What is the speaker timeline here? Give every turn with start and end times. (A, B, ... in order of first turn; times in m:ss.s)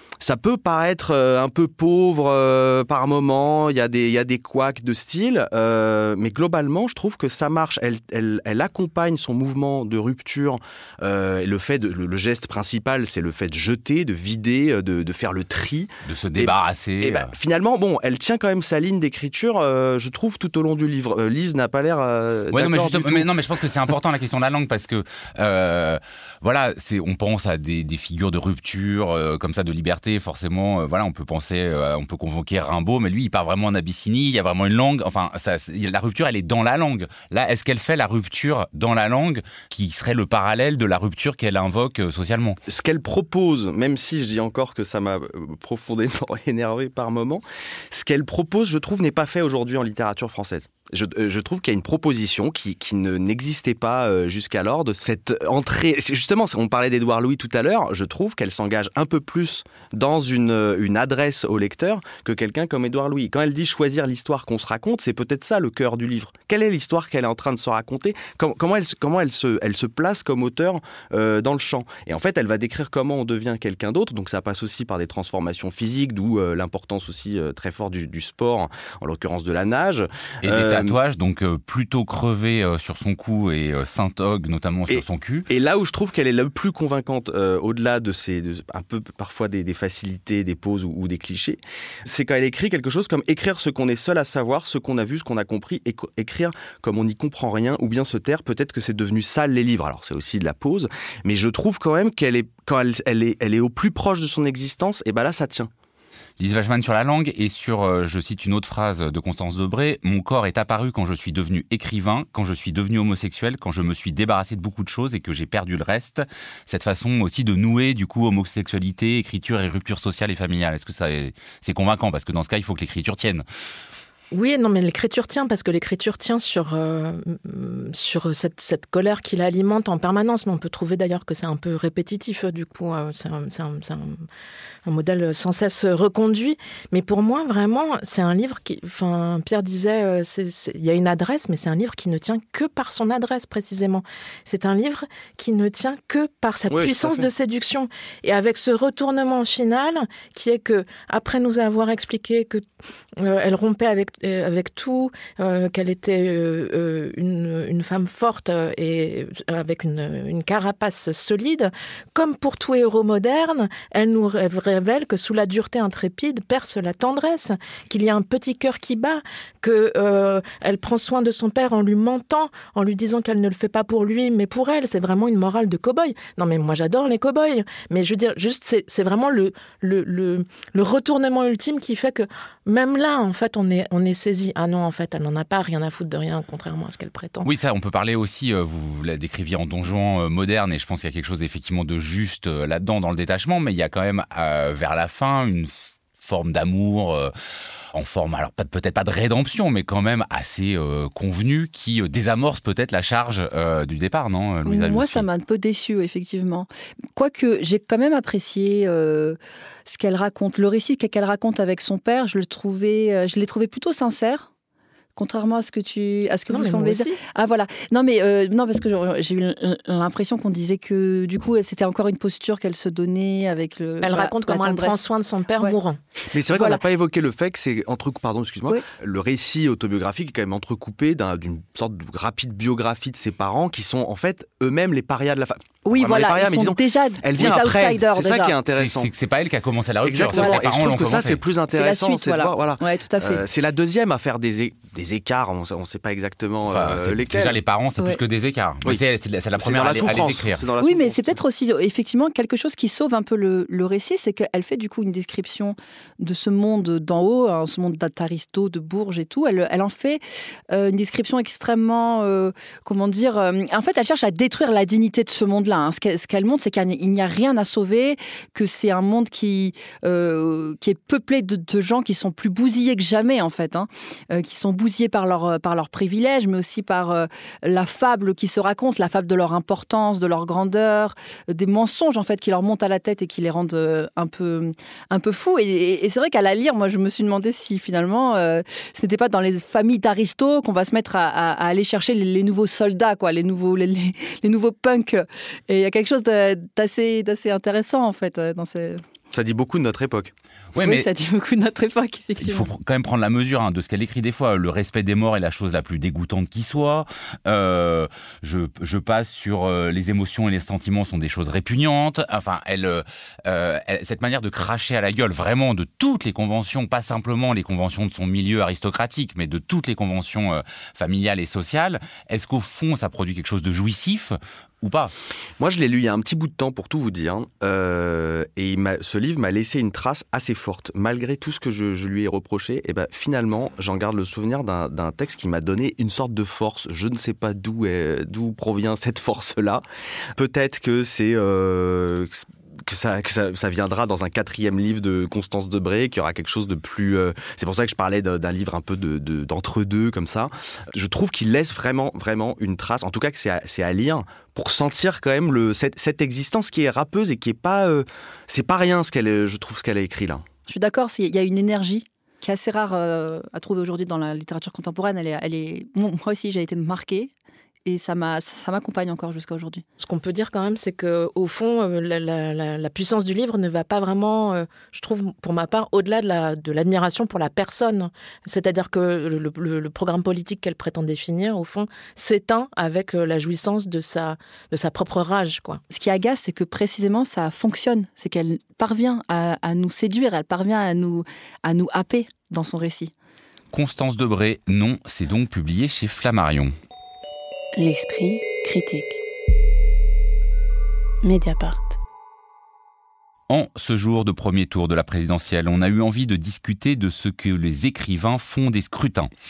0:00.2-0:23.3 A
0:16.0-0:17.3 B
0:22.5-0:42.6 B
0:42.7-1:21.0 A
1:20.4-1:25.5 B
1:24.9-1:45.7 A
1:46.4-2:03.4 B
2:04.3-2:14.2 C
2:14.8-2:32.6 C
2:26.7-2:27.2 A
2:33.2-3:07.5 C
3:07.4-3:17.3 B
3:17.9-3:25.3 B
3:24.6-3:34.5 D
3:35.2-3:45.0 D
3:36.5-3:37.2 C
3:44.0-3:46.0 C
3:46.3-3:59.1 A
3:55.8-3:58.6 D
3:58.7-4:01.4 B
4:00.0-4:07.6 A
4:00.3-4:00.6 D
4:01.7-4:03.4 D
4:06.7-4:10.6 B
4:09.6-4:11.4 A
4:10.8-4:59.0 D
4:59.3-5:00.3 A
5:00.7-5:01.1 B
5:00.8-5:02.7 D
5:02.4-5:25.1 B
5:25.6-5:39.8 A
5:40.4-6:00.4 A
6:00.7-6:07.3 D
6:07.8-6:09.8 D
6:10.0-6:25.8 C
6:25.9-6:33.1 D
6:33.7-6:36.7 B
6:37.8-6:39.2 E
6:41.2-6:42.0 E
6:43.5-6:49.3 B